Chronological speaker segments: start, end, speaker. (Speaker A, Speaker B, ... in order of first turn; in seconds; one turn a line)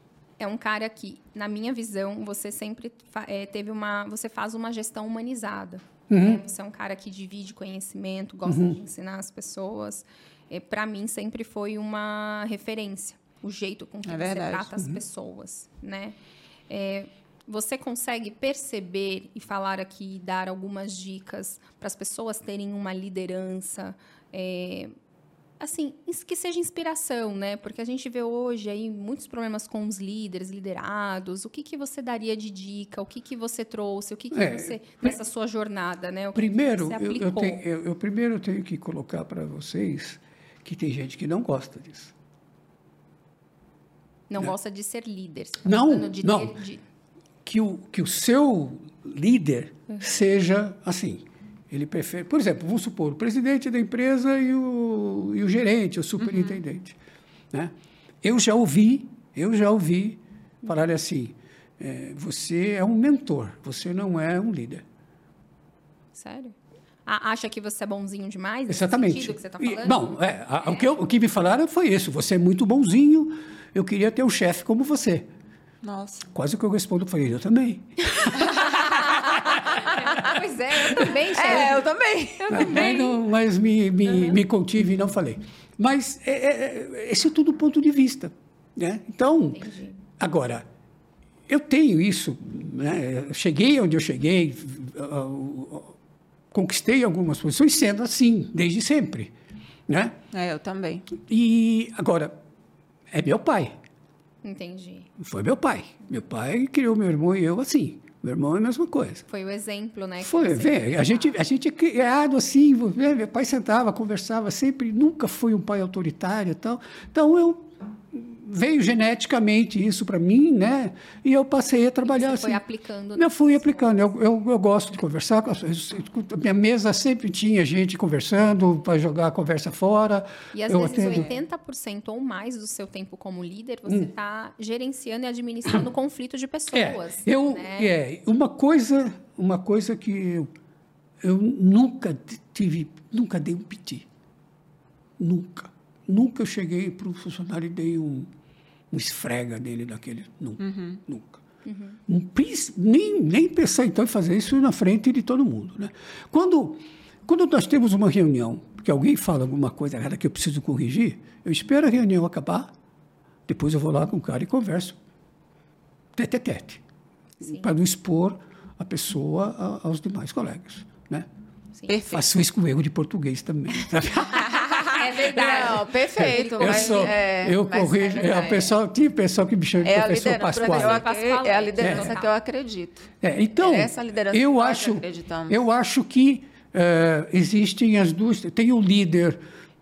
Speaker A: 0.4-16.1
Speaker B: 6.1-6.4
Speaker B: 8.5-8.8
Speaker C: 14.0-14.7
Speaker A: 16.7-24.9
Speaker A: 25.6-37.6
Speaker B: 34.3-35.1
Speaker B: 36.3-42.1
Speaker A: 44.3-46.8
Speaker B: 45.6-46.6
Speaker B: 47.4-57.0
Speaker C: 56.2-56.5
Speaker B: 57.5-64.8
Speaker A: 66.2-66.5
Speaker A: 67.0-70.9
Speaker B: 68.7-75.3
Speaker C: 75.8-76.3
Speaker B: 76.3-80.1
Speaker C: 78.4-80.3
Speaker A: 78.8-81.8
Speaker B: 80.8-81.2
Speaker C: 81.3-83.1
Speaker A: 82.4-83.2
Speaker B: 82.5-90.6
Speaker A: 89.5-90.0
Speaker B: 91.5-95.9
Speaker B: 96.5-99.3
Speaker B: 99.9-100.2
Speaker C: 100.3-101.1
Speaker B: 101.2-102.3
Speaker B: 103.1-103.7
Speaker A: 104.4-105.1
Speaker B: 105.2-109.2
Speaker A: 109.3-111.3
Speaker B: 110.2-122.6
Speaker A: 122.0-124.1
Speaker B: 123.2-131.3
Speaker A: 130.5-137.9
Speaker C: 131.0-131.3
Speaker B: 136.7-140.5
Speaker B: 141.2-144.1
Speaker B: 145.2-148.3
Speaker B: 148.9-151.4
Speaker C: 150.6-151.0
Speaker A: 151.7-152.0
Speaker B: 152.1-162.7
Speaker B: 163.5-165.0
Speaker B: 166.1-166.8
Speaker A: 167.4-167.7
Speaker B: 167.4-171.3
Speaker C: 171.9-172.3
Speaker B: 172.1-181.1
Speaker C: 174.4-178.8
Speaker A: 174.9-177.1
Speaker C: 179.8-185.6
Speaker A: 180.5-182.3
Speaker B: 181.8-182.2
Speaker B: 183.2-189.4